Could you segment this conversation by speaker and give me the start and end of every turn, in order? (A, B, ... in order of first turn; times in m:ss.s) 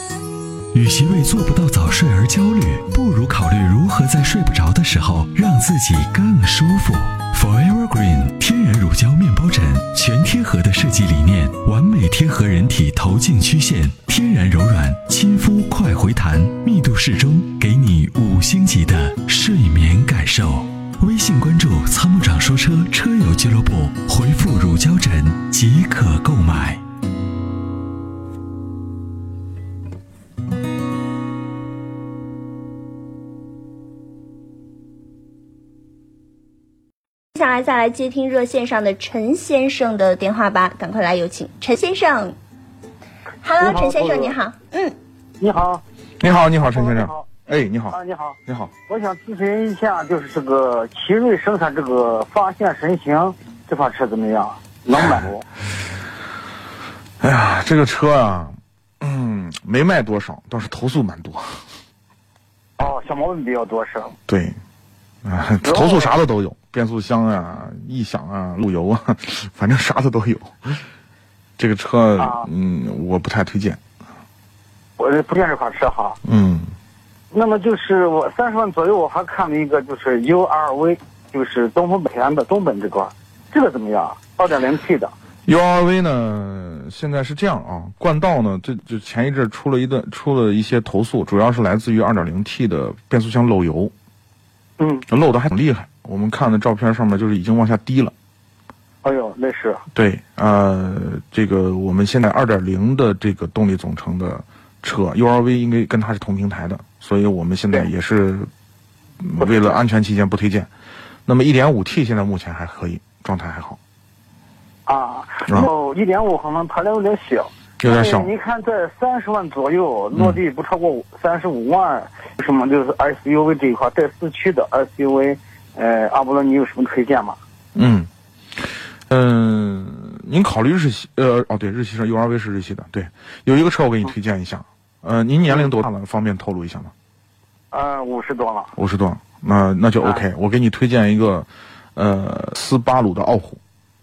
0:00.7-0:26.8 A
0:37.4-0:42.4 B
0:43.4-0:45.0 B
0:43.6-0:44.4 C
0:45.4-0:45.8 C
0:46.2-0:48.7 D
0:46.6-0:47.3 C
0:47.9-0:55.4 C
0:57.2-1:01.6 D
1:02.8-1:04.2 C
1:04.3-1:04.6 D
1:05.2-1:10.8 D
1:05.6-1:06.2 C
1:11.6-1:13.8 D
1:12.2-1:12.5 C
1:15.0-1:16.2 C
1:16.2-1:16.7 D
1:17.3-1:25.1 C
1:25.5-1:33.9 D
1:34.8-1:35.1 C
1:35.1-1:38.1 D
1:39.0-1:39.8 C
1:39.9-1:48.5 D
1:49.2-1:50.7 D
1:49.4-1:49.8 C
1:51.3-1:53.8 D
1:54.9-2:07.4 C
1:57.8-1:58.3 D
2:07.8-2:08.1 D
2:09.1-2:16.9 D
2:17.7-2:18.7 C
2:18.8-2:23.6 D